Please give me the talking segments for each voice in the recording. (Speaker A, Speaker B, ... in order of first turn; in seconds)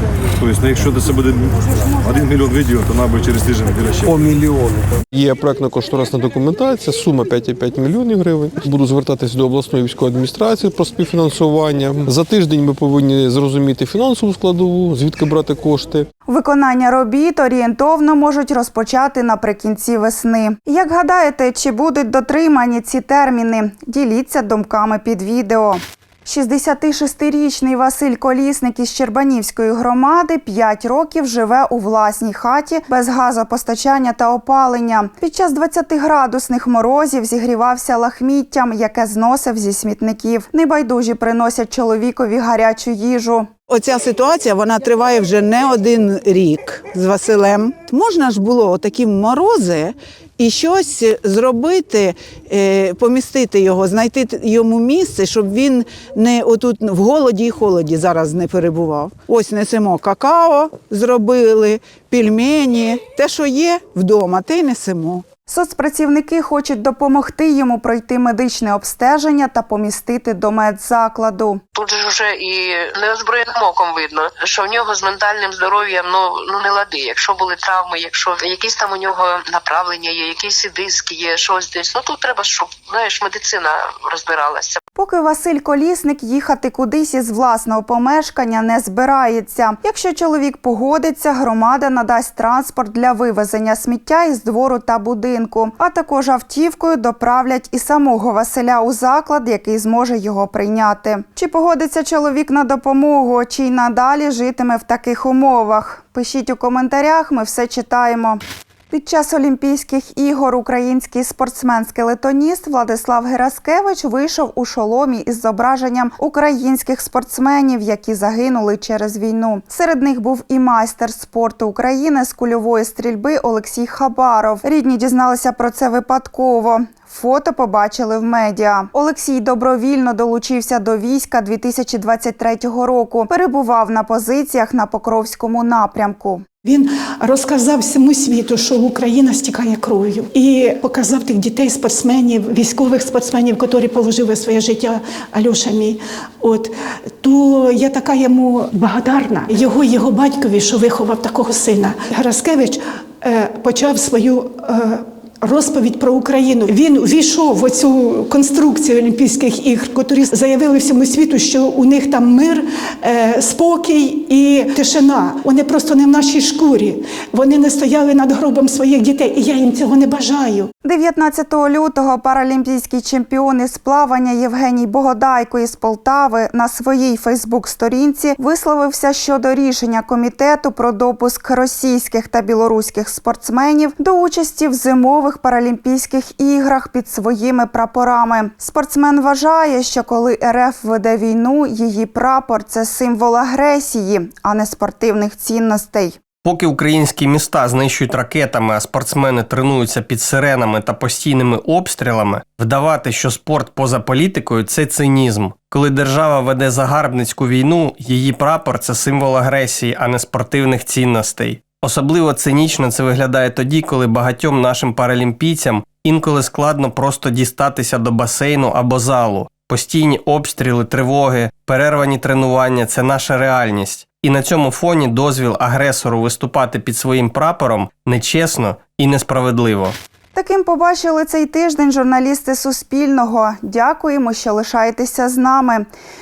Speaker A: 0.3-4.1
Speaker B: 4.0-16.1
Speaker C: 16.3-43.5, 65.5-71.6, 85.0-136.4, 170.8-196.2, 230.3-235.9
Speaker D: 43.7-65.2
Speaker E: 71.7-84.8
Speaker F: 136.6-170.7
Speaker G: 196.4-229.9